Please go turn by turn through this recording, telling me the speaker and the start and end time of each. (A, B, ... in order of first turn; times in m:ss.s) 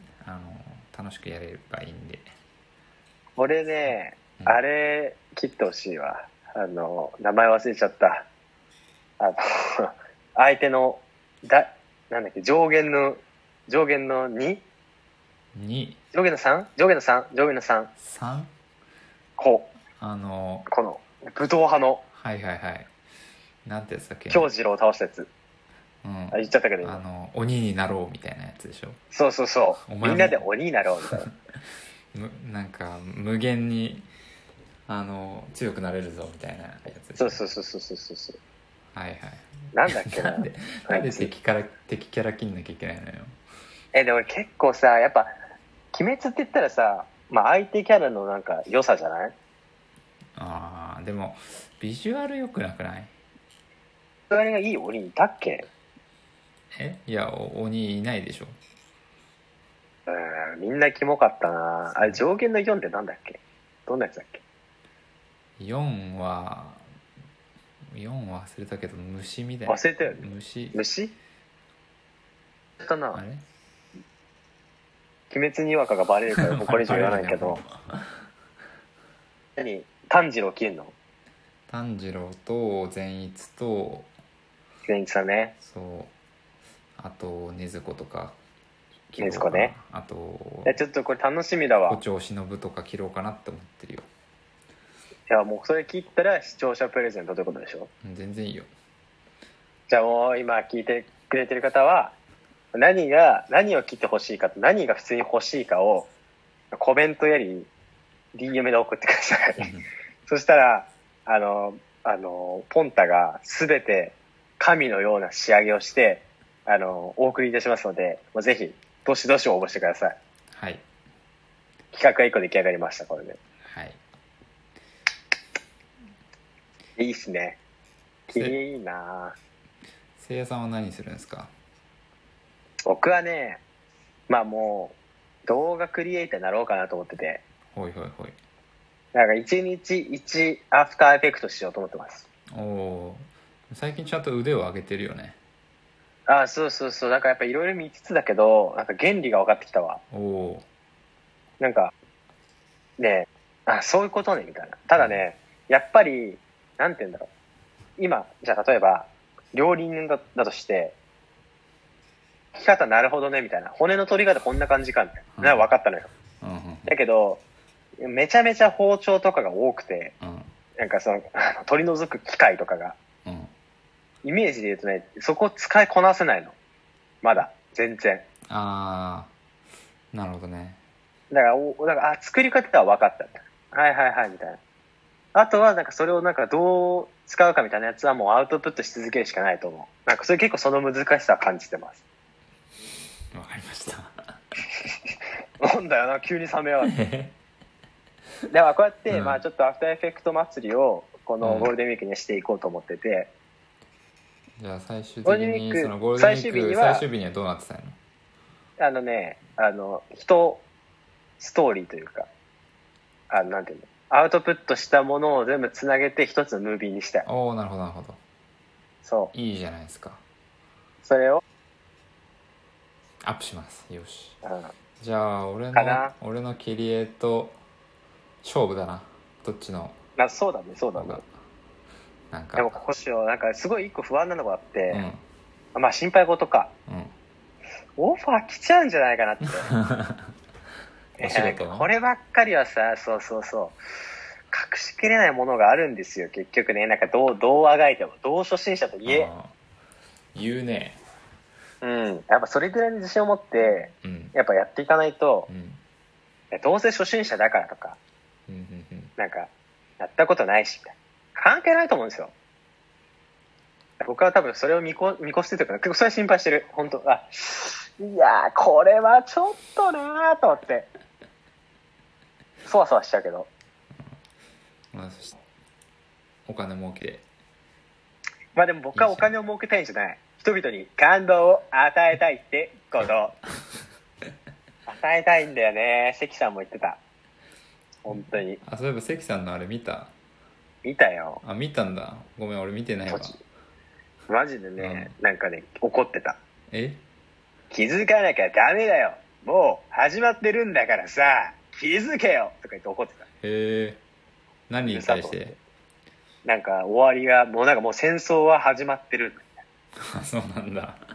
0:00.2-0:02.3 A
0:03.4-0:08.3 B
0:09.2-0:14.6 B
0:15.5-0:16.0 A
0:16.1-0:17.9 B
0:18.0-0:18.5 A
0:19.4-0:19.7 B
0:20.0-0:20.7 A
0:20.7-0:22.0 B
0:22.1-0:22.9 A
0:23.6-0:24.5 A
0:24.3-0:25.3 B
0:26.0-0:29.0 A
0:26.3-0:27.0 B
0:29.1-0:31.3 B
0:29.9-0:30.4 A
0:32.1-0:34.1 A
0:34.9-0:37.4 A
0:37.2-0:38.4 B
0:38.9-0:43.4 A
0:39.7-0:41.3 B
0:43.9-0:45.3 B
0:45.9-0:49.3 B
0:50.4-0:53.1 A
0:54.3-0:55.7 B
0:56.7-0:58.6 A
1:00.1-1:04.4 B
1:05.6-1:06.8 A
1:07.9-1:10.8 A
1:09.7-1:11.2 B
1:12.8-1:13.2 B
1:13.1-1:13.4 A
1:15.3-1:17.6 B
1:16.4-1:18.0 A
1:19.6-1:20.9 B
1:21.7-1:24.1 A
1:24.9-1:25.6 B
1:25.6-1:26.1 A
1:27.0-1:28.4 A
1:29.1-1:30.8 A
1:29.2-1:29.7 B
1:30.6-1:32.0 B
1:31.9-1:34.0 A
1:35.3-1:37.9 B
1:38.0-1:38.7 A
1:39.9-1:42.1 B
1:42.7-1:46.1 B
1:46.7-1:47.7 B
1:48.3-1:49.7 B
1:49.6-1:49.8 A
1:50.3-2:00.2 B
2:00.5-2:00.8 A
2:01.9-2:03.4 B
2:03.7-2:04.0 A
2:07.0-2:07.6 B
2:08.3-2:09.4 B
2:08.3-2:08.6 A
2:10.2-2:11.5 A
2:12.8-2:13.6 B
2:14.3-2:17.4 B
2:17.7-2:18.4 A
2:19.1-2:22.3 B
2:22.5-2:25.4 A
2:26.3-2:30.0 B
2:30.1-2:30.6 A
2:31.6-2:31.9 B
2:33.0-2:37.3 B
2:38.0-2:41.0 B
2:42.5-2:46.1 B
2:45.3-2:45.7 A
2:46.4-2:46.9 A
2:46.8-2:47.4 B
2:48.0-2:50.1 B
2:50.2-2:50.5 A
2:50.8-2:53.0 B
2:53.2-2:53.5 A
2:54.2-2:56.6 B
2:57.2-2:58.2 B
2:58.5-2:59.3 A
3:00.1-3:00.8 A
3:01.3-3:04.6 B
3:05.3-3:12.0 B
3:13.3-3:14.1 A
3:15.6-3:16.9 B
3:16.9-3:17.3 A
3:18.5-3:23.3 B
3:19.1-3:19.4 A
3:21.4-3:21.7 A
3:24.6-3:28.0 A
3:25.2-3:27.1 B
3:28.8-3:30.6 B
3:31.4-3:32.3 B
3:33.3-3:37.2 B
3:37.2-3:38.2 A
3:39.0-3:39.3 B
3:39.3-3:40.2 A
3:41.0-3:41.4 B
3:43.2-3:44.4 A
3:44.4-3:44.7 B
3:45.0-3:47.6 A
3:45.7-3:46.1 B
3:48.4-3:50.0 A
3:50.2-3:51.2 B
3:51.0-3:51.3 A
3:52.3-3:52.8 A
3:52.6-3:55.0 B
3:54.9-3:55.2 A
3:55.7-3:56.7 B
3:56.9-3:57.1 A
3:58.0-3:59.7 B
3:59.7-4:00.2 A
4:01.2-4:01.9 A
4:01.2-4:03.8 B
4:04.5-4:09.3 B
4:09.0-4:09.5 A
4:10.3-4:11.0 A
4:11.8-4:15.5 B
4:14.0-4:14.3 A
4:15.5-4:15.8 A
4:16.5-4:18.0 B
4:18.5-4:19.1 A
4:19.2-4:22.3 B
4:24.0-4:30.9 B
4:32.6-4:33.5 B
4:34.9-4:35.4 A
4:36.4-4:37.2 A
4:38.5-4:43.4 B
4:38.9-4:39.3 A
4:44.9-4:47.0 B
4:48.0-4:48.6 B
4:48.1-4:50.1 A
4:50.8-4:51.4 B
4:51.4-4:53.4 A
4:53.1-4:53.4 B
4:54.3-4:56.4 B
4:54.8-4:55.1 A
4:56.7-4:57.0 A
4:57.7-5:03.2 B
5:03.4-5:04.0 A
5:04.7-5:05.6 A
5:04.8-5:05.5 B
5:06.4-5:09.6 B
5:10.1-5:11.0 A